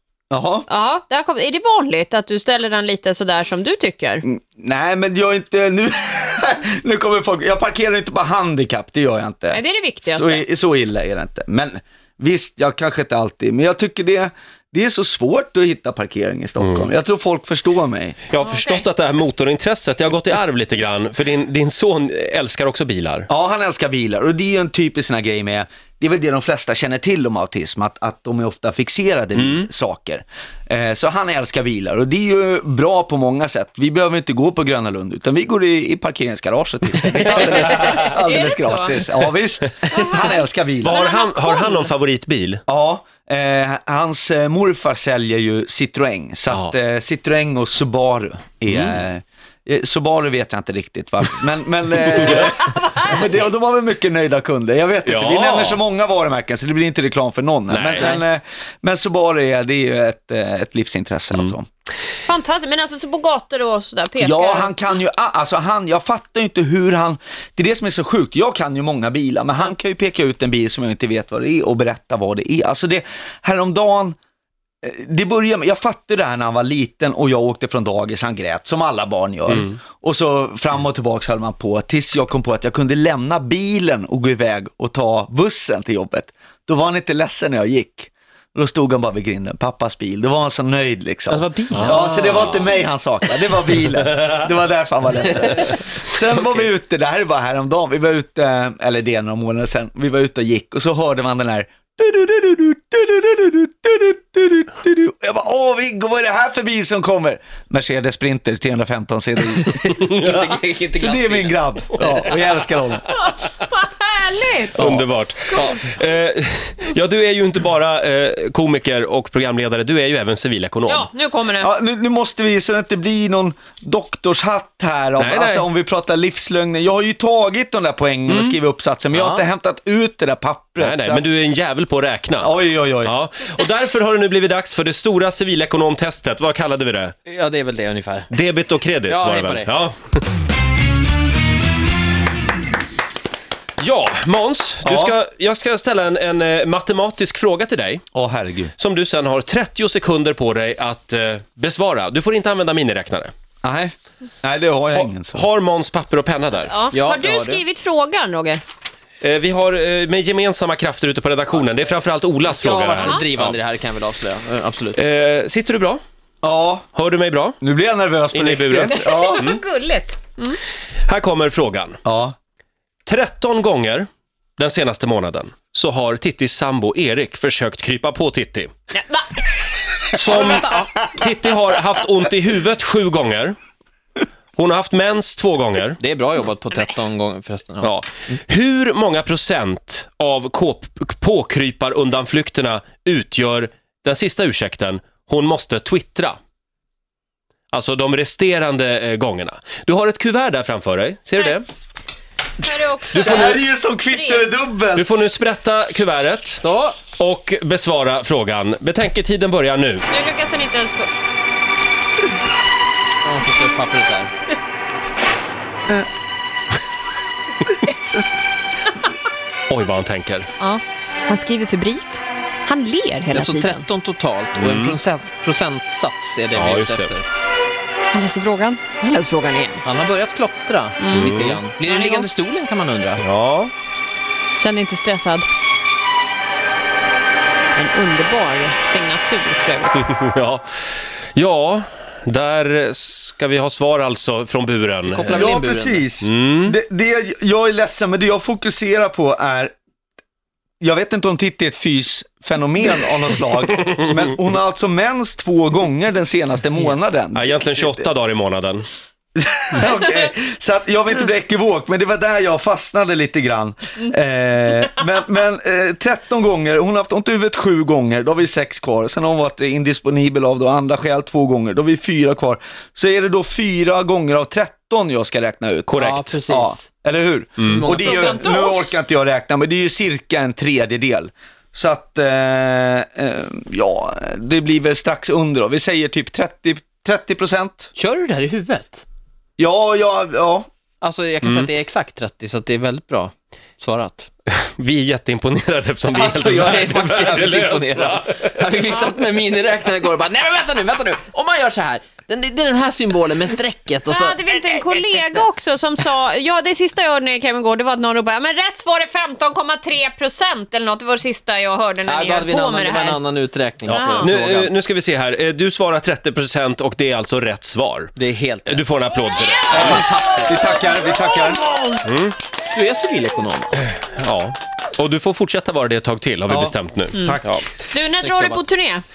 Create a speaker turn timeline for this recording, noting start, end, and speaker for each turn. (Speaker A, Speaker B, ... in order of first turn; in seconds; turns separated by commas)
Speaker A: 0.3-0.7, Speaker B: 0.7-4.2, Speaker A: 4.3-18.2, Speaker B: 9.5-10.4, Speaker C: 18.3-23.3, Speaker B: 18.4-18.8, Speaker A: 23.3-41.0, Speaker C: 29.3-29.7, Speaker C: 37.1-37.7, Speaker B: 37.5-39.0, Speaker B: 39.9-41.9, Speaker C: 40.8-42.6, Speaker A: 42.7-61.6, Speaker C: 48.7-49.0, Speaker B: 52.3-53.3, Speaker C: 55.0-55.8, Speaker C: 57.7-58.2, Speaker B: 62.3-64.8, Speaker A: 64.2-74.2, Speaker A: 74.8-113.0, Speaker C: 79.5-79.8, Speaker D: 91.3-92.2, Speaker C: 91.7-92.5, Speaker D: 110.0-112.3, Speaker B: 113.3-114.8, Speaker C: 114.7-121.1, Speaker A: 114.8-115.1, Speaker B: 115.5-115.8, Speaker B: 120.8-121.7, Speaker A: 121.6-131.2, Speaker C: 125.2-125.6, Speaker C: 128.3-128.6, Speaker D: 129.1-129.4, Speaker C: 130.8-137.2, Speaker A: 132.4-133.1, Speaker D: 137.3-138.3, Speaker C: 138.3-139.9, Speaker D: 139.1-139.7, Speaker C: 143.8-148.1, Speaker A: 144.8-145.1, Speaker A: 148.1-148.7, Speaker C: 148.8-153.3, Speaker A: 153.6-155.4, Speaker C: 154.9-156.9, Speaker B: 156.7-158.6, Speaker D: 156.9-157.6, Speaker C: 159.2-163.6, Speaker D: 162.5-165.0, Speaker B: 163.0-163.3, Speaker C: 164.9-166.0, Speaker A: 166.4-166.8, Speaker C: 166.9-167.6, Speaker A: 167.6-169.5, Speaker C: 168.3-169.6, Speaker B: 168.9-170.6, Speaker C: 171.1-172.0, Speaker A: 172.0-172.3, Speaker C: 173.1-178.7, Speaker B: 178.9-179.3, Speaker C: 180.1-183.6, Speaker D: 180.2-180.9, Speaker C: 184.6-186.0, Speaker D: 186.0-187.9, Speaker C: 187.8-196.4, Speaker C: 197.7-201.7, Speaker B: 202.6-204.5, Speaker C: 203.1-203.6, Speaker A: 203.1-205.3, Speaker C: 204.9-210.1, Speaker D: 206.6-207.0, Speaker B: 210.1-211.1, Speaker D: 213.2-214.3, Speaker C: 219.7-220.5, Speaker B: 220.6-223.8, Speaker D: 223.3-227.2, Speaker C: 224.6-225.0, Speaker C: 226.5-227.2, Speaker B: 228.1-229.8, Speaker D: 229.8-233.2, Speaker B: 231.0-232.3, Speaker C: 231.1-231.6, Speaker C: 233.2-233.7, Speaker B: 234.6-235.5, Speaker B: 237.7-240.1, Speaker C: 240.1-245.6, Speaker D: 245.0-246.1, Speaker A: 245.3-249.7, Speaker C: 246.2-246.8, Speaker A: 250.8-258.1, Speaker C: 257.3-258.9, Speaker A: 259.4-287.9, Speaker D: 275.9-276.9, Speaker C: 277.6-277.8, Speaker D: 277.6-278.5, Speaker B: 277.9-278.9, Speaker D: 287.9-289.0, Speaker A: 289.6-290.7, Speaker D: 291.0-294.3, Speaker C: 291.4-291.7, Speaker C: 294.5-298.5, Speaker D: 296.1-305.5, Speaker B: 304.1-313.2, Speaker D: 312.1-314.7, Speaker C: 313.9-318.1, Speaker B: 313.9-314.3, Speaker D: 318.1-319.0, Speaker C: 318.6-320.1, Speaker D: 319.7-320.8, Speaker A: 319.7-321.6, Speaker C: 322.0-322.4, Speaker D: 322.7-323.8, Speaker C: 324.1-327.6, Speaker A: 326.5-327.4, Speaker B: 327.1-327.4, Speaker B: 327.9-329.0, Speaker D: 328.2-328.6